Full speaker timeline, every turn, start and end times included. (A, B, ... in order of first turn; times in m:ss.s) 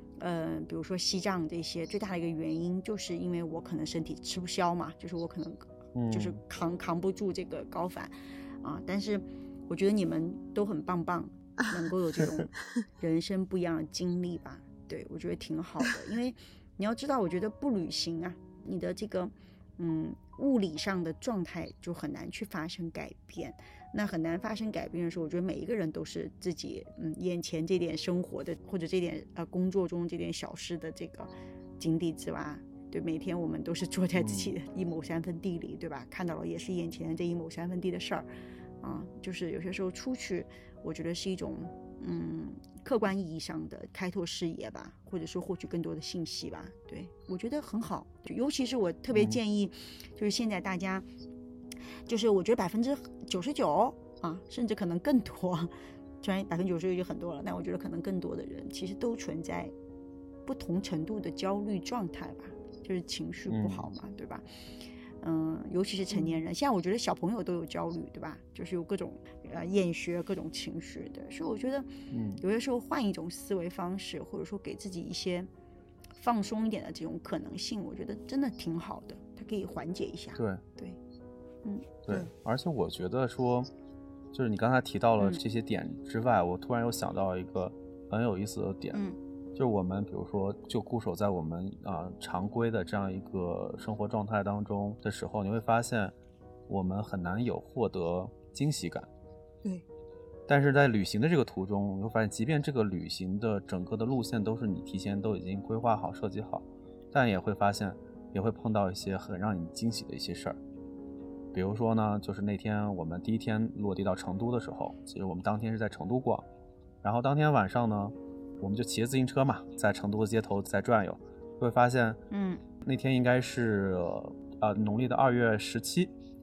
0:00.2-0:38.3 A
0:05.9-0:06.4 B
0:34.1-0:34.5 B
0:38.8-0:51.0 A
0:49.1-0:49.4 B
0:52.1-0:59.7 A
1:00.5-1:04.4 A
1:03.5-1:03.9 B
1:05.2-1:11.9 A
1:12.1-1:12.4 B
1:12.4-1:15.5 A
1:16.2-1:21.0 A
1:21.6-1:22.0 A
1:22.0-1:23.7 B
1:24.3-1:29.0 B
1:29.6-1:36.1 B
1:36.7-1:39.1 B
1:40.5-1:50.6 B
1:51.5-1:56.4 B
1:57.0-2:02.2 B
2:02.3-2:02.6 A
2:02.8-2:06.1 B